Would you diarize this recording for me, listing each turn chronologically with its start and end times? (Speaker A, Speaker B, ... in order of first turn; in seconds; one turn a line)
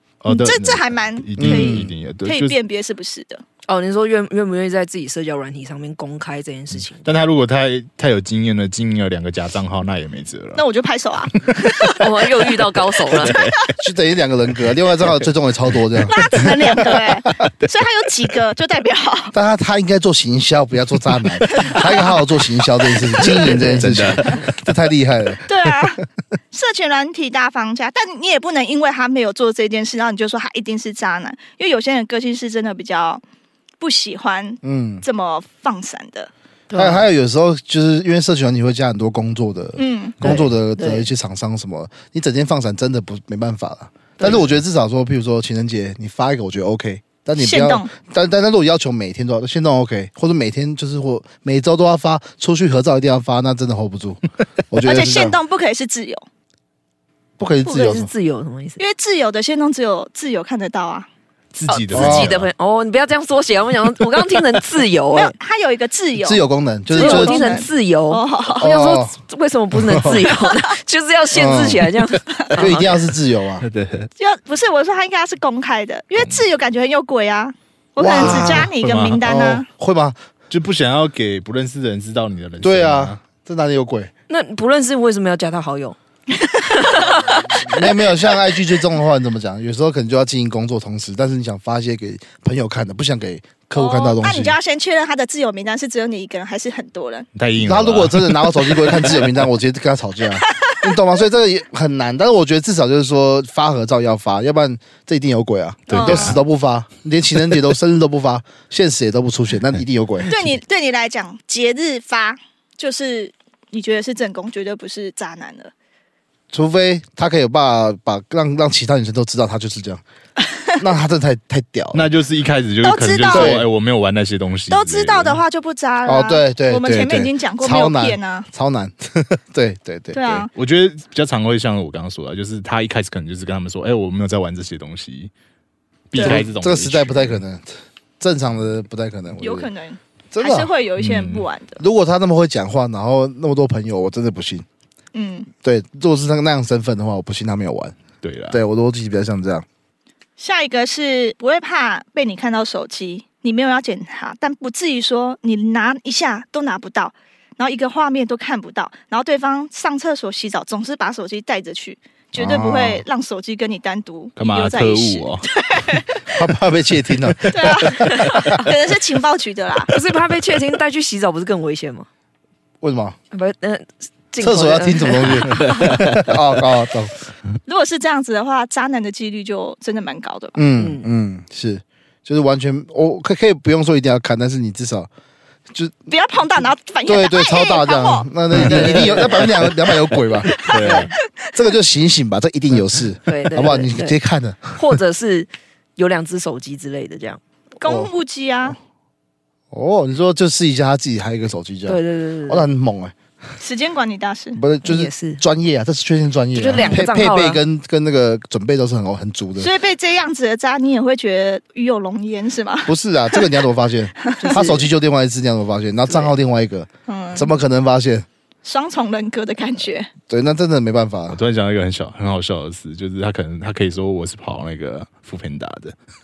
Speaker A: 0.2-2.6
Speaker B: 0.3-3.4
Speaker C: 1.4-1.9
Speaker D: 3.7-7.1
Speaker A: 7.0-10.6
Speaker B: 10.5-12.6
Speaker D: 12.0-13.4
Speaker B: 13.1-13.5
Speaker A: 13.2-13.7
Speaker C: 13.8-17.0
Speaker B: 16.0-19.3
Speaker A: 16.2-16.6
Speaker C: 19.3-25.4
Speaker B: 21.5-23.6
Speaker A: 23.1-24.5
Speaker D: 23.5-23.9
Speaker B: 25.4-33.2
Speaker B: 33.8-36.3
Speaker C: 34.6-35.0
Speaker D: 36.7-37.0
Speaker C: 36.7-55.4
Speaker B: 39.8-40.4
Speaker D: 40.2-41.1
Speaker B: 47.4-47.9
Speaker B: 54.8-56.2
Speaker C: 57.4-58.1
Speaker D: 57.6-58.8
Speaker B: 58.8-61.1
Speaker A: 61.5-62.5
Speaker D: 61.7-65.3
Speaker C: 61.9-62.4
Speaker B: 65.1-68.7
Speaker C: 66.2-67.5
Speaker D: 66.9-72.9
Speaker C: 68.6-69.1
Speaker C: 69.7-70.2
Speaker B: 70.2-70.5
Speaker C: 71.3-71.9
Speaker C: 72.5-73.7
Speaker A: 73.6-74.1
Speaker B: 74.2-79.6
Speaker C: 78.0-80.2
Speaker A: 78.1-79.2
Speaker A: 80.5-83.2
Speaker C: 82.6-84.1
Speaker D: 84.3-86.0
Speaker B: 86.3-88.4
Speaker C: 87.5-94.6
Speaker B: 93.7-97.3
Speaker A: 97.3-99.4
Speaker C: 97.6-110.5
Speaker B: 100.3-101.0
Speaker A: 105.9-106.4
Speaker B: 105.9-106.4
Speaker B: 110.2-115.7
Speaker C: 116.5-120.0
Speaker C: 120.8-122.1
Speaker A: 121.9-125.4
Speaker B: 122.8-123.6
Speaker C: 123.3-123.7
Speaker B: 124.7-128.5
Speaker C: 126.0-130.5
Speaker B: 130.1-130.5
Speaker A: 130.5-135.3
Speaker A: 136.1-137.4
Speaker B: 136.1-136.4
Speaker C: 136.2-137.7
Speaker C: 138.2-139.7
Speaker B: 139.4-141.8
Speaker C: 140.3-140.7
Speaker A: 141.0-141.4
Speaker C: 141.8-144.7
Speaker B: 145.1-145.5
Speaker C: 145.6-147.9
Speaker A: 148.2-148.6
Speaker C: 148.5-149.6
Speaker B: 150.4-166.4
Speaker C: 162.3-163.0
Speaker A: 164.4-165.5
Speaker C: 166.3-168.7
Speaker B: 167.5-170.0
Speaker D: 169.9-172.1
Speaker C: 172.8-173.2
Speaker D: 173.3-175.9
Speaker C: 174.4-177.1
Speaker A: 175.7-176.0
Speaker B: 177.7-180.6
Speaker C: 180.6-185.1
Speaker D: 180.8-181.1
Speaker B: 186.1-188.3
Speaker C: 187.1-194.7
Speaker A: 188.5-191.1
Speaker D: 188.7-189.2
Speaker B: 190.6-191.1
Speaker D: 193.2-194.2
Speaker D: 194.7-197.4
Speaker B: 197.8-198.8
Speaker C: 197.8-198.1
Speaker C: 199.7-203.1
Speaker D: 201.9-202.7
Speaker B: 203.6-204.6
Speaker C: 204.5-209.7
Speaker D: 204.8-205.4
Speaker D: 206.5-207.6
Speaker B: 206.8-207.0
Speaker B: 209.6-213.6
Speaker C: 212.8-218.2
Speaker B: 214.2-214.8
Speaker B: 217.1-217.5
Speaker B: 218.6-220.1
Speaker C: 220.2-221.4
Speaker A: 221.3-225.9